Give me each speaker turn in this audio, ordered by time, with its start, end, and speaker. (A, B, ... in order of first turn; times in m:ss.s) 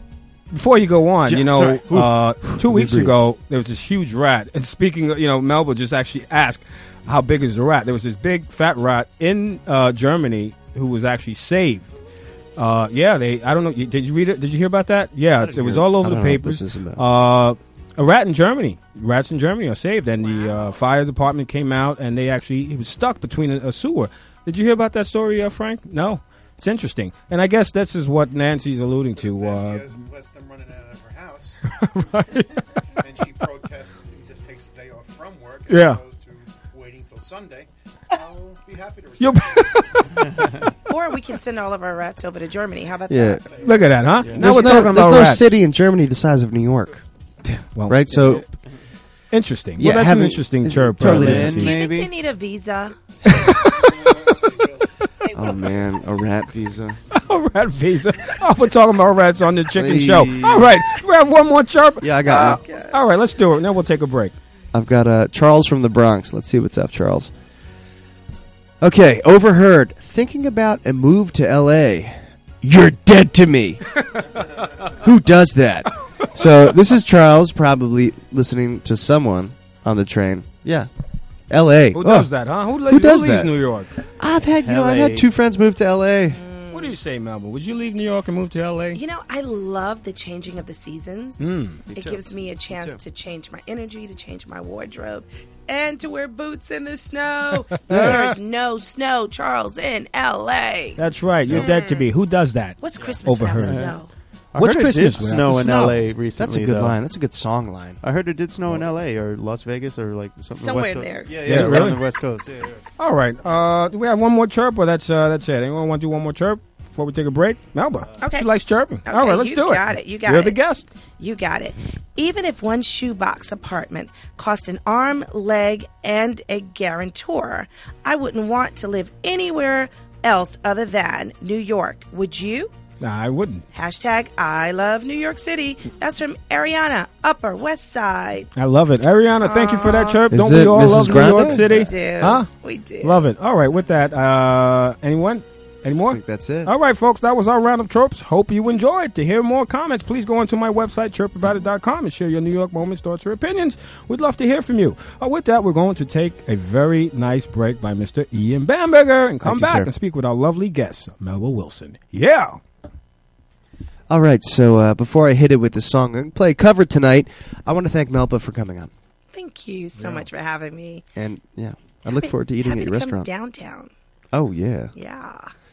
0:00.5-0:11.9 A
0:01.2-0:03.1 B
0:12.6-0:29.8 A
0:15.4-0:17.0 B
0:20.2-0:20.7 C
0:29.2-0:31.6 D
0:31.7-0:32.5 A
0:33.0-0:40.2 D
0:35.7-0:36.0 A
0:39.2-0:40.4 A
0:40.9-0:43.5 C
0:43.1-0:43.4 B
0:43.4-0:44.3 D
0:43.6-0:45.4 A
0:44.2-0:44.7 E
0:44.4-0:47.0 B
0:47.5-0:48.5 A
0:47.9-0:48.4 B
0:49.3-0:51.8 A
0:49.8-0:51.7 B
0:51.0-0:52.1 E
0:51.5-0:52.9 C
0:53.2-0:54.4 A
0:53.5-0:54.9 D
0:55.2-0:55.6 C
0:55.3-0:57.0 B
0:57.1-1:04.3 A
0:59.7-1:00.7 B
1:02.0-1:02.6 B
1:02.3-1:03.0 C
1:04.7-1:07.3 B
1:08.8-1:13.9 B
1:15.0-1:20.9 B
1:21.5-1:22.3 B
1:21.9-1:23.9 A
1:22.8-1:23.5 B
1:24.2-1:26.4 B
1:24.6-1:25.3 E
1:26.3-1:26.9 C
1:26.7-1:29.0 A
1:28.9-1:41.0 C
1:31.4-1:31.8 A
1:31.9-1:33.0 B
1:37.9-1:38.4 A
1:37.9-1:38.2 B
1:41.0-1:43.9 A
1:41.5-1:42.0 C
1:42.8-1:44.1 C
1:43.6-1:43.9 E
1:44.5-1:46.9 E
1:44.6-1:46.0 A
1:46.4-1:48.0 B
1:48.0-1:52.8 E
1:50.6-1:51.7 C
1:51.4-1:52.0 A
1:53.0-2:00.8 A
1:58.2-1:58.5 C
1:59.0-2:00.6 C
2:01.2-2:12.7 C
2:13.0-2:13.6 A
2:13.7-2:18.5 C
2:18.6-2:22.5 A
2:19.4-2:20.2 C
2:20.3-2:21.9 B
2:21.4-2:23.2 C
2:23.0-2:42.6 A
2:26.1-2:26.7 B
2:39.4-2:39.9 B
2:44.1-2:48.9 B
2:49.3-2:51.0 C
2:50.0-2:50.2 A
2:51.2-2:53.3 B
2:52.0-2:53.9 C
2:54.3-2:54.9 B
2:54.9-2:55.5 C